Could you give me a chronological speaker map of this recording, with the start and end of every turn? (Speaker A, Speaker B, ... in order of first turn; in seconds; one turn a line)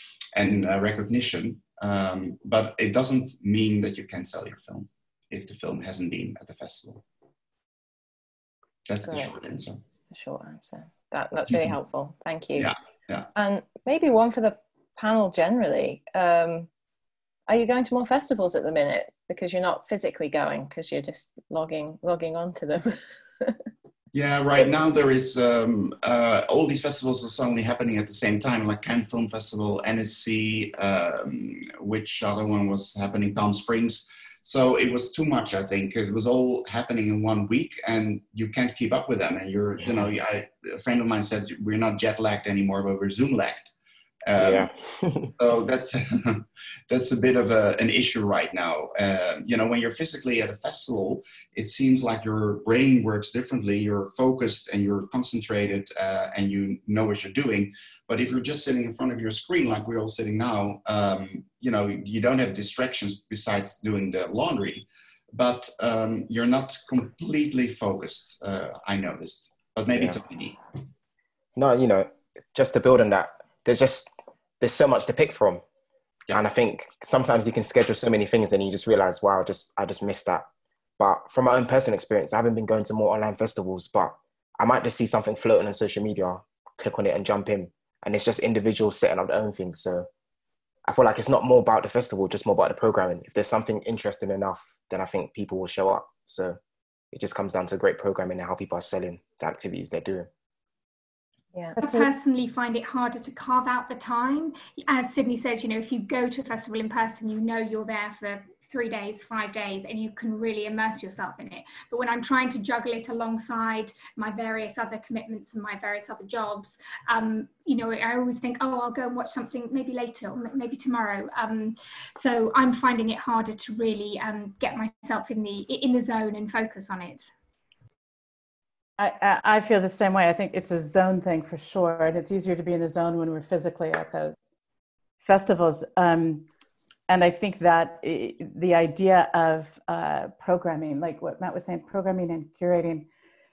Speaker A: 0.4-7.0
Speaker A: 8.9-9.8
Speaker B: 9.0-9.3
Speaker B: 9.9-12.7
Speaker A: 12.6-13.3
Speaker B: 13.3-16.7
Speaker B: 17.5-23.6
Speaker A: 24.1-43.7
Speaker A: 44.2-44.7
Speaker C: 44.4-45.3
Speaker A: 45.4-70.6
Speaker C: 71.6-75.6
Speaker C: 76.3-80.5
Speaker C: 81.0-90.1
Speaker C: 90.9-96.6
Speaker C: 97.1-100.3
Speaker D: 101.8-102.1
Speaker E: 101.8-127.3
Speaker D: 129.0-134.4
Speaker D: 135.2-136.5
Speaker D: 137.1-143.1